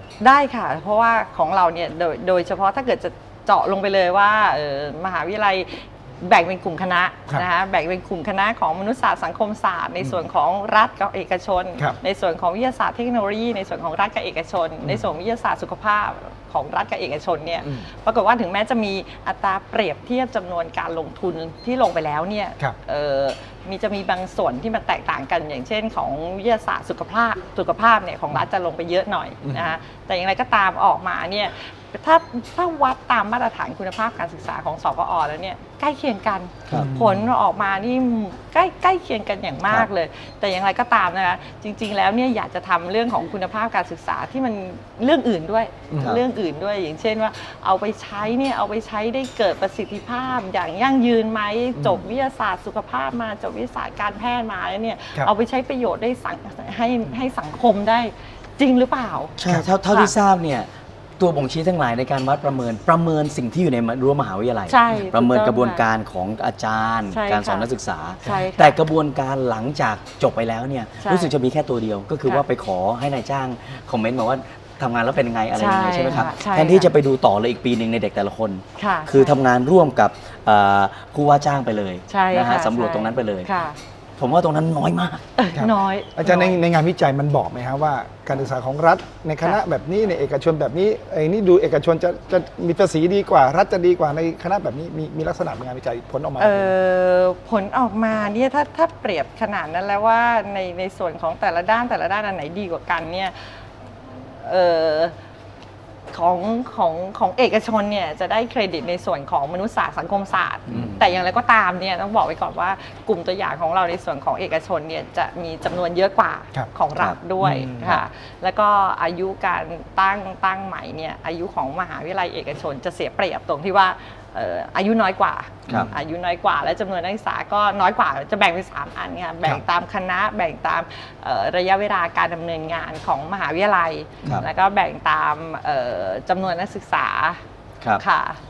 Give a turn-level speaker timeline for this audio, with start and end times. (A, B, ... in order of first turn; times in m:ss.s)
0:00.2-0:59.3 A
0:36.7-0:36.9 B
0:36.7-0:37.3 C
0:45.9-0:46.2 C
0:51.8-0:52.0 C
0:59.4-1:23.5 B
1:04.7-1:05.8 A
1:07.1-1:07.7 A
1:08.2-1:08.8 A
1:11.0-1:11.3 A
1:15.5-1:16.9 A
1:18.8-1:19.4 A
1:22.1-1:23.8 A
1:24.2-1:25.2 B
1:25.4-1:26.6 A
1:25.5-1:36.7 C
1:36.4-1:43.6 A
1:44.4-1:45.1 A
1:46.1-2:17.4 A
1:50.7-1:51.0 B
1:57.0-1:58.0 B
1:57.4-1:57.9 C
2:18.0-2:18.4 A